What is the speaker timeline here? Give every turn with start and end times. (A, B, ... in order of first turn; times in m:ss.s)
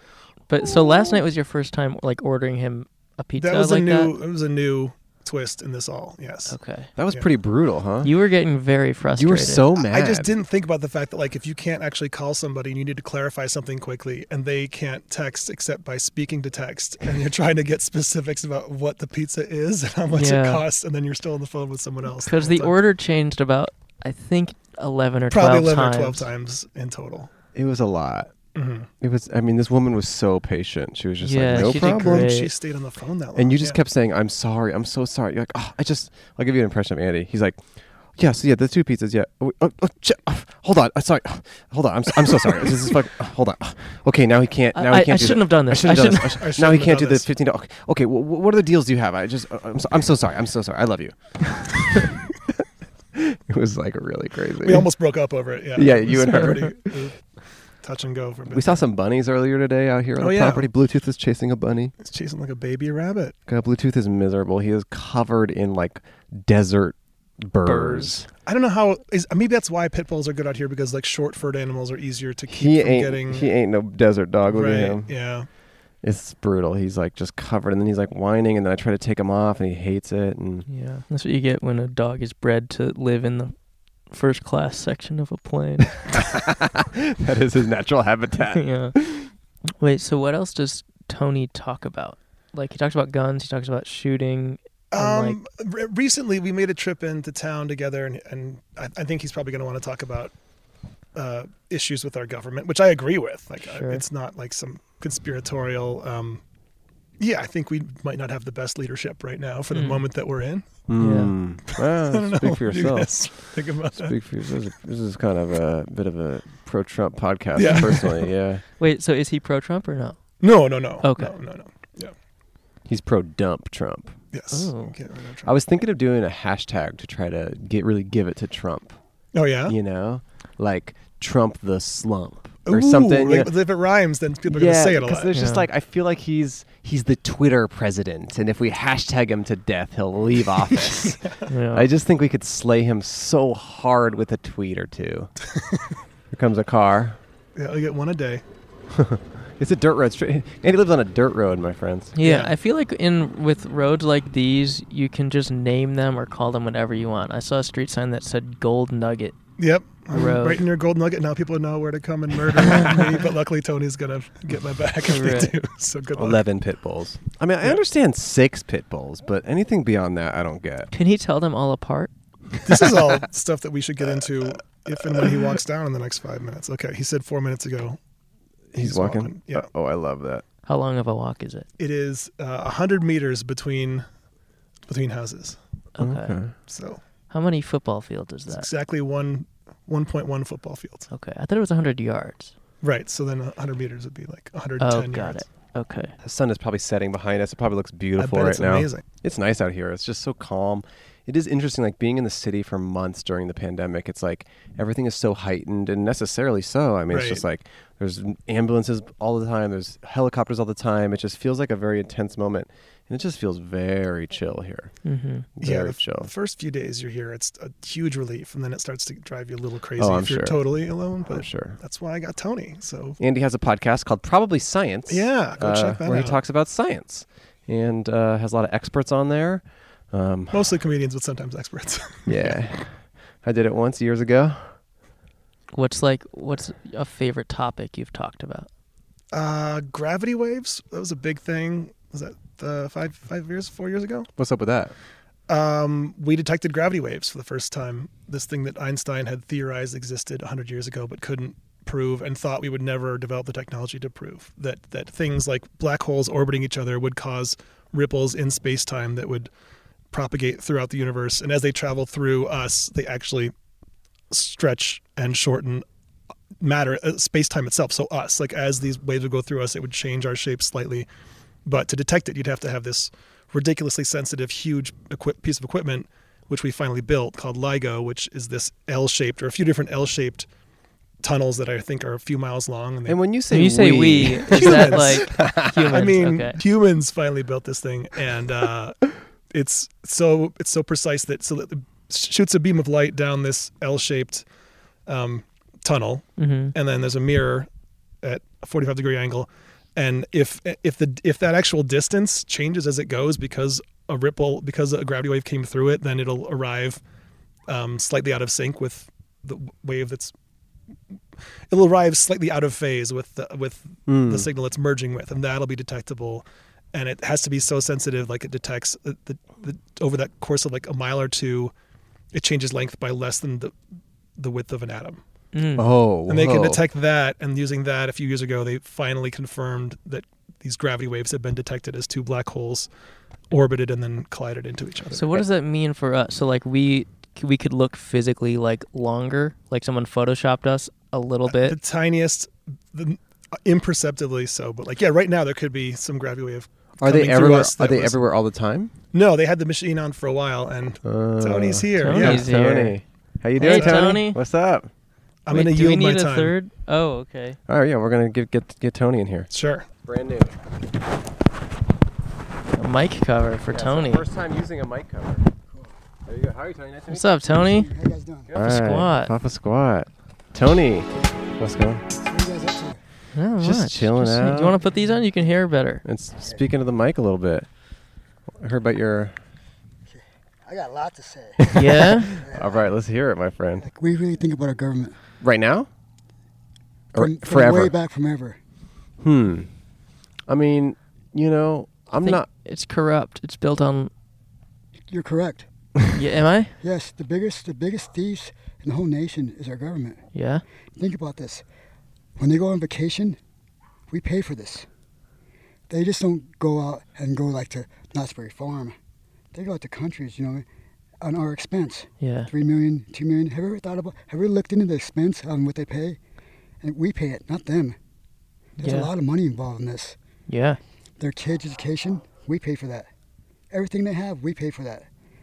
0:00.5-0:04.1 A
0:00.7-0:01.2 B
0:03.4-0:06.6 C
0:06.5-0:06.9 A
0:07.0-0:08.1 B
0:08.0-0:09.7 A
0:09.2-0:10.3 B
0:09.8-0:22.8 C
0:20.2-0:20.6 A
0:22.2-0:26.3 A
0:25.3-0:27.3 C
0:27.5-0:28.3 B
0:28.6-0:28.9 C
0:29.0-0:32.3 B
0:31.2-0:32.5 A
0:31.5-0:33.8 C
0:33.4-0:37.6 B
0:38.1-0:52.1 B
0:44.7-0:46.4 A
0:46.4-0:47.3 C
0:53.2-0:54.9 B
0:54.6-0:57.3 C
0:55.8-0:57.1 B
0:57.8-0:58.8 C
0:58.5-1:01.9 B
1:00.2-1:00.7 C
1:02.0-1:03.4 C
1:03.5-1:08.3 B
1:07.6-1:08.1 A
1:08.4-1:13.5 C
1:12.5-1:15.2 B
1:14.5-1:15.5 C
1:16.0-1:20.7 B
1:20.7-1:26.1 A
1:26.2-1:29.3 B
1:28.6-1:29.0 A
1:29.8-1:35.4 A
1:34.9-1:40.3 C
1:41.2-1:46.4 C
1:43.6-1:44.0 A
1:47.2-1:51.2 C
1:49.7-1:50.0 A
1:50.9-1:58.6 B
1:51.0-1:51.4 A
1:51.8-1:54.2 C
1:57.6-1:58.3 C
1:57.6-1:58.0 A
1:58.8-2:00.4 A
2:00.4-2:02.1 C
2:01.0-2:01.4 A
2:02.9-2:04.2 B
2:04.3-2:05.5 C
2:04.5-2:05.0 A
2:05.4-2:09.0 B
2:09.3-2:09.8 C
2:09.7-2:13.5 B
2:12.7-2:15.4 C
2:14.5-2:25.3 B
2:15.3-2:15.7 A
2:21.5-2:21.9 A
2:26.3-2:27.2 B
2:27.6-2:28.4 C
2:28.9-2:32.1 B
2:32.2-2:39.4 A
2:32.2-2:32.5 C
2:39.6-2:46.4 C
2:40.1-2:40.6 A
2:45.1-2:45.5 A
2:46.2-2:50.9 B
2:50.9-2:52.1 A
2:52.6-2:58.0 C
2:55.1-2:55.4 B
2:58.7-3:00.4 B
2:58.8-2:59.7 C
3:00.7-3:01.7 A
3:01.8-3:04.1 C
3:04.9-3:05.6 C
3:06.0-3:06.4 A
3:06.0-3:06.5 B
3:06.7-3:07.0 C
3:07.3-3:08.7 A
3:08.5-3:11.1 C
3:11.1-3:12.5 A
3:12.8-3:15.4 C
3:14.8-3:16.1 A
3:16.2-3:35.0 B
3:18.2-3:19.0 C
3:27.1-3:27.4 C
3:35.0-3:35.5 A
3:35.6-3:36.3 B
3:35.6-3:43.2 C
3:40.0-3:41.8 B
3:43.2-3:50.7 B
3:45.1-3:46.4 C
3:50.5-3:52.2 C
3:52.3-3:54.8 B
3:55.7-3:58.7 A
3:59.3-4:04.3 C
4:04.4-4:04.9 B
4:05.5-4:19.5 C
4:20.1-4:23.5 C
4:24.3-4:25.8 C
4:26.6-4:31.1 C
4:31.6-4:40.5 C
4:41.2-4:43.2 C
4:43.1-4:46.1 B
4:43.5-4:46.6 A
4:44.5-4:54.4 C
4:55.1-4:57.7 C
4:56.4-4:56.7 A
4:58.2-5:07.0 C
5:07.7-5:10.3 C
5:11.7-5:21.7 C
5:14.1-5:14.5 B
5:22.3-5:23.8 C
5:24.4-5:25.2 C
5:25.5-5:25.9 A
5:25.8-5:26.8 B
5:26.3-5:32.9 C
5:33.5-5:35.4 C
5:35.1-5:41.8 A
5:41.5-5:48.2 C
5:47.0-5:48.9 B
5:49.1-5:52.5 C
5:51.0-5:54.9 B
5:52.0-5:53.0 A
5:53.6-5:54.4 A
5:53.6-5:54.2 C
5:55.5-5:56.6 C
5:55.5-5:57.6 A
5:57.7-5:59.5 B
5:59.5-5:59.9 C
6:00.1-6:00.6 B
6:02.8-6:04.2 A
6:03.7-6:05.5 B
6:06.3-6:07.4 B
6:07.1-6:07.9 A
6:07.5-6:08.5 D
6:08.5-6:12.0 B
6:08.6-6:09.3 A
6:12.2-6:13.0 D
6:13.3-6:16.0 A
6:13.6-6:14.8 B
6:16.0-6:17.7 B
6:18.6-6:19.4 B
6:20.1-6:22.8 D
6:21.7-6:23.9 B
6:21.8-6:22.3 A
6:23.8-6:25.2 D
6:25.4-6:25.9 B
6:27.1-6:27.9 B
6:27.2-6:28.6 D
6:29.2-6:29.7 B
6:30.5-6:32.5 B
6:32.2-6:34.1 A
6:35.1-6:35.7 D
6:36.1-6:36.8 A
6:36.8-6:40.2 D
6:40.3-6:40.6 A
6:41.0-6:41.6 D
6:42.4-6:43.4 D
6:44.1-6:44.9 D
6:45.9-6:49.0 D
6:49.5-6:50.6 D
6:51.2-6:56.2 D
6:52.2-6:52.5 A
6:56.8-6:58.0 D
6:58.8-7:00.2 D
6:58.8-6:59.1 A
7:00.5-7:00.8 A
7:01.2-7:03.1 D
7:03.7-7:05.1 D